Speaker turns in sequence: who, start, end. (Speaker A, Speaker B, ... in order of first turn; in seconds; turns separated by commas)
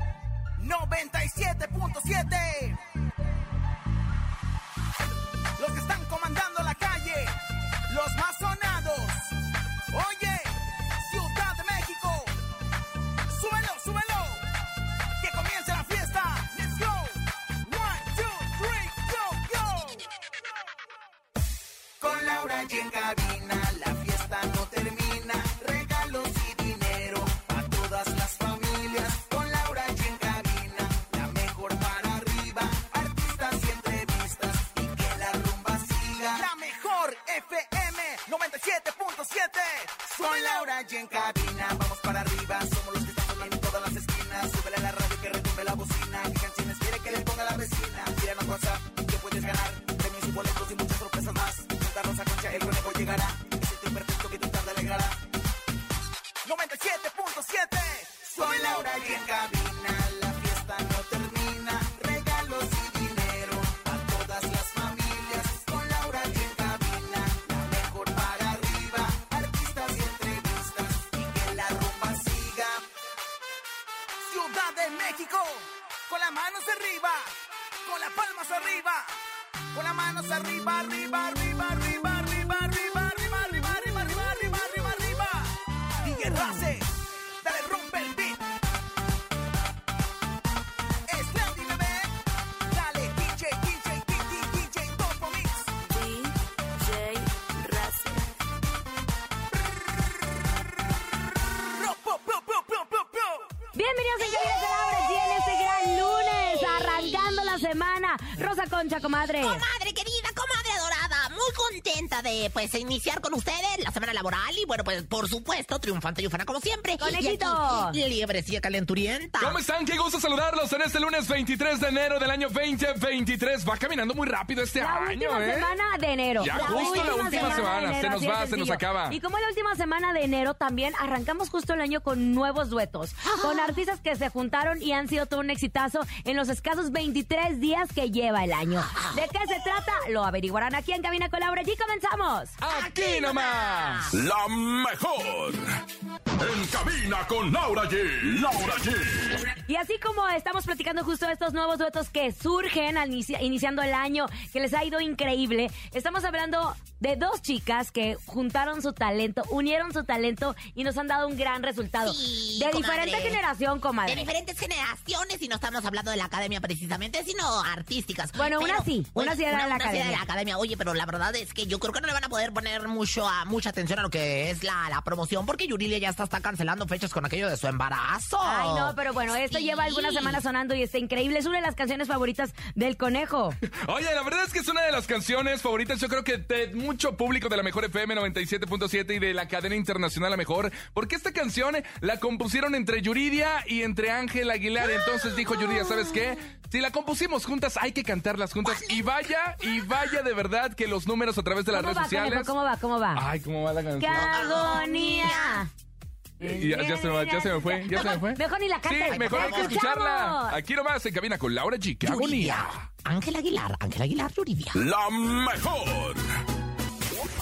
Speaker A: 0.6-2.8, Speaker A: 5.6-7.3, Speaker A: 7.9-9.3, Speaker A: 9.9-12.3, Speaker A: 13.3-14.4, Speaker A: 15.2-20.0, Speaker A: 22.0-55.2, Speaker A: 56.4-72.8, Speaker A: 74.2-77.3, Speaker A: 77.8-79.1, Speaker A: 79.7-86.9, Speaker A: 87.4-88.4, Speaker A: 91.1-92.2, Speaker A: 92.7-95.8, Speaker A: 101.7-103.4, Speaker B: 103.7-109.6, Speaker C: 104.2-107.7, Speaker C: 109.4-119.6, Speaker B: 117.0-118.0, Speaker D: 119.4-125.7, Speaker B: 124.8-142.6, Speaker D: 126.4-129.2, Speaker C: 126.5-127.7, Speaker C: 133.3-133.8, Speaker C: 138.8-139.3, Speaker D: 142.6-144.1, Speaker C: 142.6-144.1, Speaker E: 144.1-145.6, Speaker E: 146.4-149.5, Speaker B: 149.7-164.3, Speaker C: 162.0-163.4, Speaker C: 164.1-180.4, Speaker B: 168.3-170.2, Speaker B: 178.4-183.6, Speaker D: 183.8-202.5, Speaker C: 198.6-199.1, Speaker B: 201.7-203.3, Speaker D: 203.1-204.6, Speaker B: 204.0-205.7, Speaker C: 204.1-205.7, Speaker D: 206.4-212.8, Speaker B: 206.4-210.6, Speaker C: 209.1-209.8, Speaker C: 212.0-214.8, Speaker E: 214.7-216.2